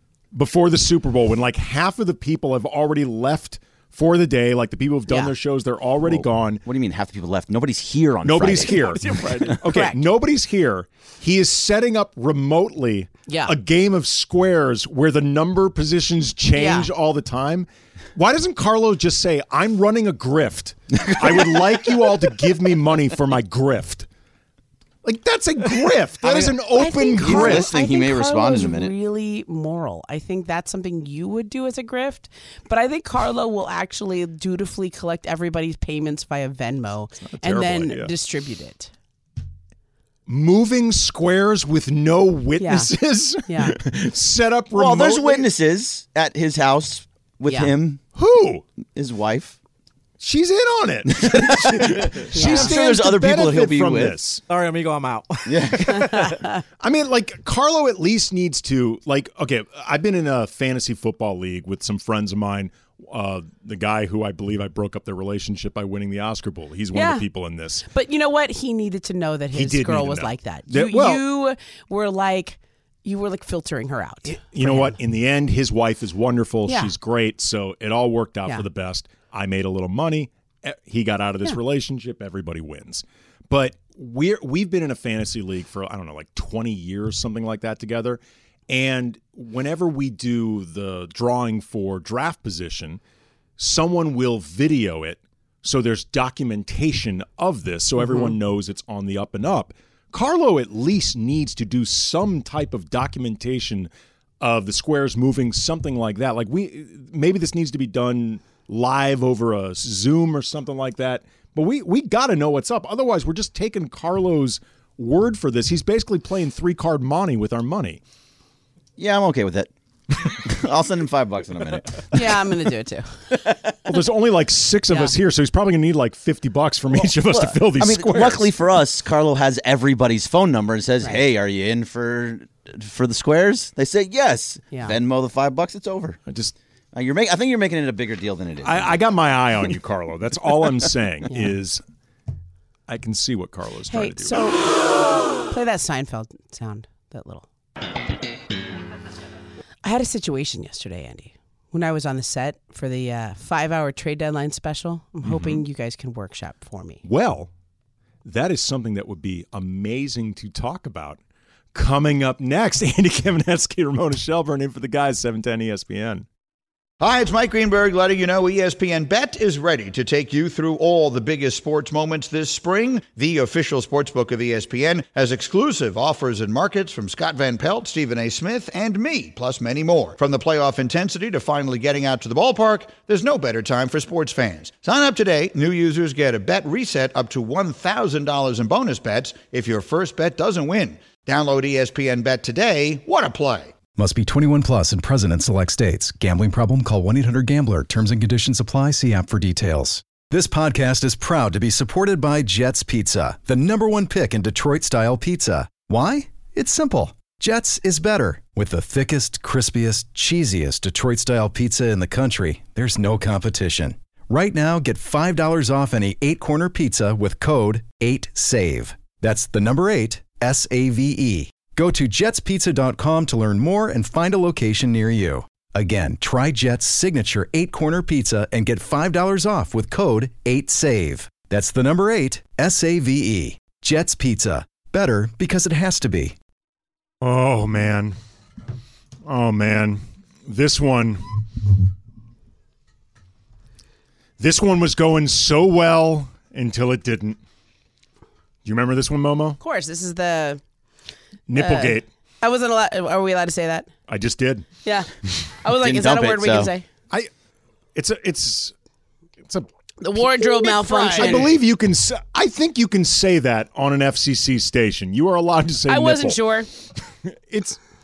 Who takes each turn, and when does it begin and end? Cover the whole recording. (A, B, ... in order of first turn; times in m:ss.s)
0:00.3-0:06.6 A
0:05.1-0:05.3 B
0:06.0-0:08.8 C
0:08.2-0:24.1 A
0:08.8-0:09.6 D
0:09.7-0:10.0 B
0:13.3-0:13.5 B
0:16.5-0:16.9 B
0:20.9-0:22.4 C
0:25.0-0:27.7 A
0:26.2-0:28.9 C
0:26.8-0:38.9 B
0:37.2-0:38.1 A
0:40.3-0:45.5 A
0:42.6-0:42.9 B
0:43.4-0:43.8 B
0:44.7-0:48.0 C
0:48.2-0:48.6 A
0:49.0-0:49.6 C
0:50.2-0:54.4 A
0:51.0-0:54.2 C
0:52.3-0:52.8 B
0:54.5-0:56.3 D
0:55.5-0:56.1 C
0:56.8-1:07.9 A
1:06.9-1:07.2 B
1:07.9-1:15.0 B
1:09.5-1:11.2 A
1:14.3-1:33.0 A
1:16.7-1:16.9 B
1:33.6-1:43.9 A
1:38.1-1:38.3 B
1:44.4-1:58.0 A
1:59.0-1:59.7 C
2:00.2-2:02.4 C
2:02.1-2:03.1 B
2:03.9-2:08.5 A
2:07.0-2:16.2 C
2:16.3-2:16.5 A
2:16.9-2:19.0 C
2:18.6-2:21.8 A
2:22.9-2:24.4 A
2:23.9-2:24.6 B
2:25.5-2:27.5 B
2:29.8-2:37.0 B
2:35.2-2:35.6 A
2:37.0-2:37.5 A
2:38.2-2:41.2 A
2:41.7-2:46.3 A
2:47.0-3:13.8 E
3:14.0-3:56.4 F
3:57.2-3:58.2 A
3:59.2-4:01.4 A
4:04.4-4:07.4 A
4:08.6-4:09.6 A
4:09.6-4:10.6 B
4:11.5-4:12.1 A
4:11.6-4:13.9 B
4:14.1-4:14.7 A
4:14.8-4:16.9 B
4:15.7-4:16.7 C
4:18.0-4:18.7 A
4:20.0-4:21.5 B
4:20.2-4:26.4 A
4:25.9-4:26.7 B
4:27.3-4:27.8 A